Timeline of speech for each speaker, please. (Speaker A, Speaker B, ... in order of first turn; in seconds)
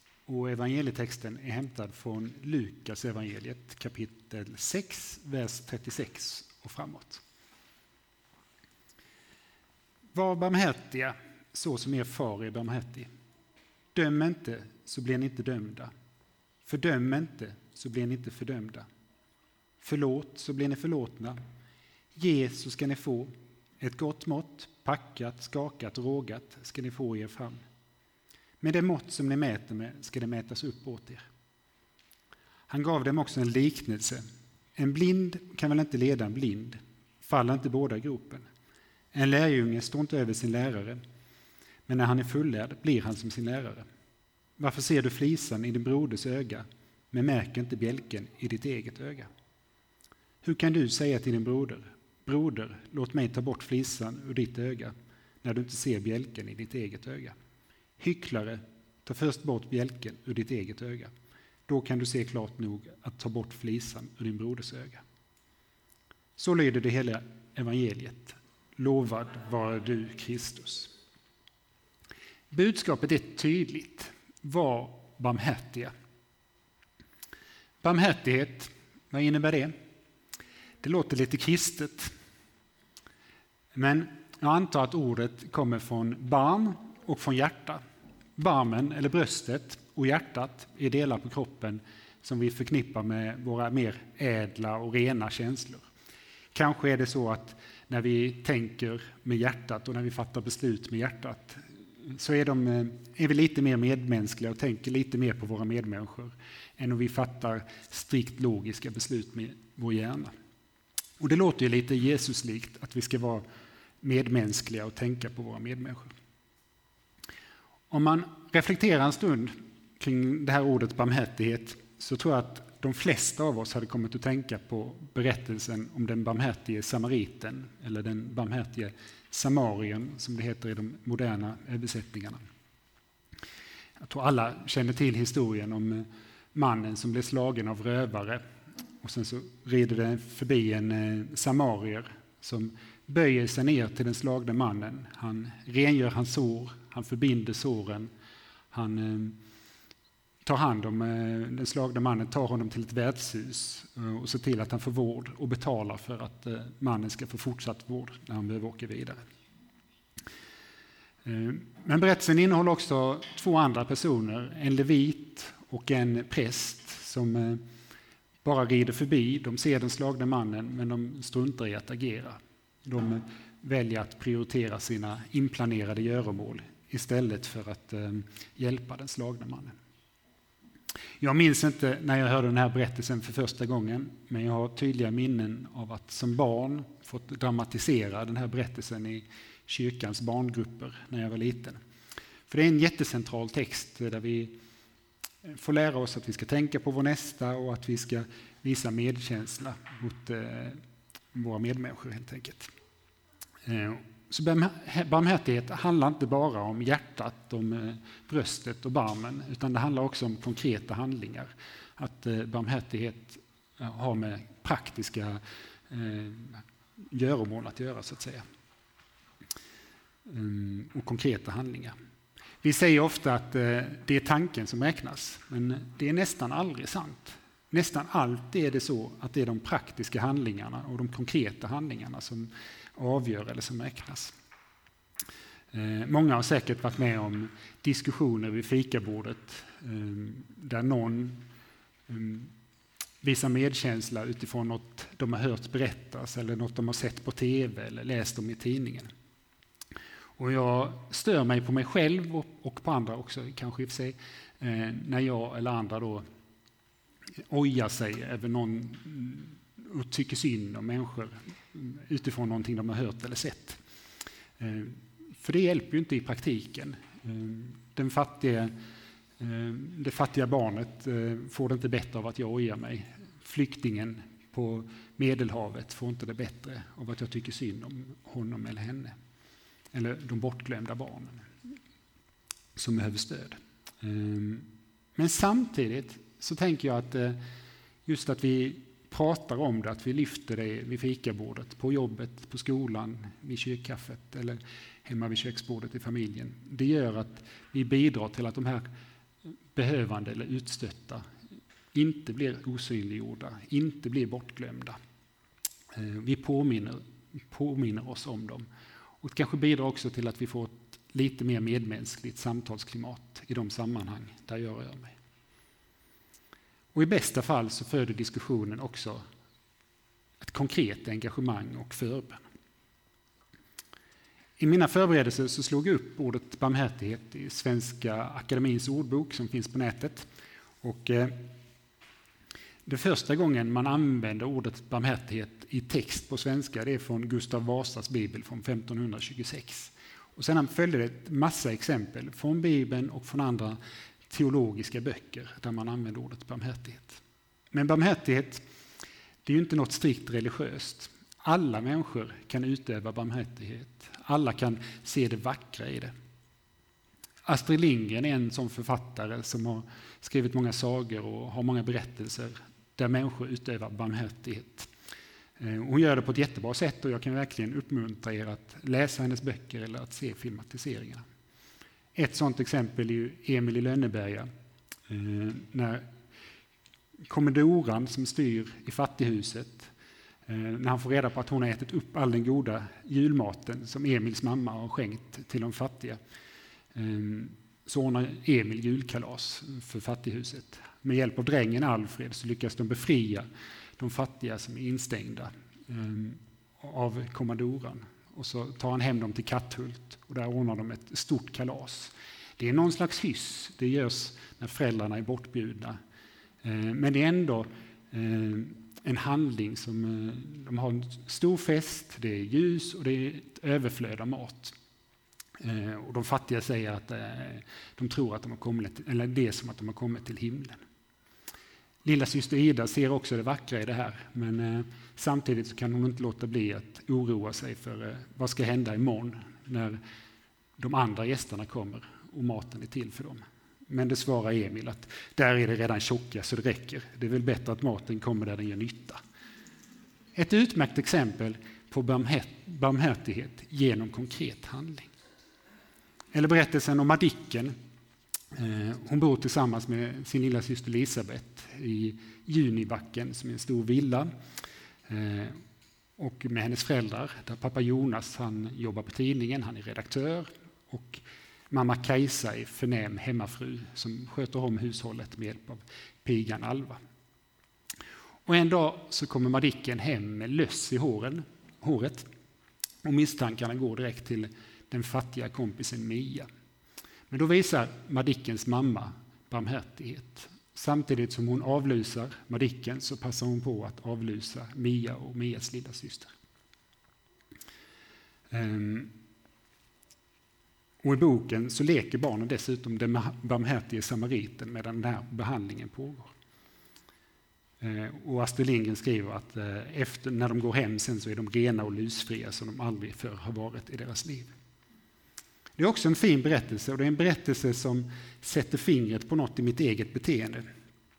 Speaker A: 0.3-7.2, 10.1-13.1, 13.9-15.9, 16.7-18.9, 19.8-21.4, 22.1-27.6, 28.6-31.2, 32.7-34.2, 34.8-38.5, 39.1-41.0, 41.9-43.9, 44.6-49.3, 50.4-57.4, 58.0-61.1, 61.7-65.0, 66.4-70.9, 72.5-75.9, 77.8-79.8, 80.8-82.1, 83.8-87.8, 88.4-95.8, 96.5-110.3, 111.2-113.4, 114.0-116.1, 117.9-132.4, 134.0-138.4, 139.0-148.1, 148.7-149.4, 150.4-159.2, 161.2-167.6, 168.4-179.8, 181.2-191.8, 192.5-194.6, 195.5-200.8, 201.3-202.7, 203.7-218.4, 220.3-221.9, 222.6-234.3, 235.7-241.4, 242.1-242.5, 243.2-249.1, 250.4-256.2, 257.5-263.8, 264.6-268.7, 269.4-279.2, 279.9-281.5, 282.8-287.4, 288.1-298.9, 299.7-301.2, 301.9-305.0, 305.9-308.7, 309.2-315.2, 316.9-319.2, 320.4-322.4, 324.6-330.3, 330.8-331.5, 332.9-343.8, 344.3-348.6, 349.4-356.1, 357.4-364.9, 365.6-371.2, 372.1-374.5, 375.1-376.1, 377.3-379.9, 380.5-386.2, 386.9-393.5, 394.0-406.0, 406.6-414.8, 415.6-420.8, 422.0-430.0, 430.8-439.2, 440.4-445.1, 446.3-447.8, 448.5-454.3, 455.1-455.6, 456.2-467.0, 468.5-472.3, 473.0-476.5, 477.3-486.3, 488.5-489.1, 491.0-496.3, 497.8-504.5, 505.8-510.7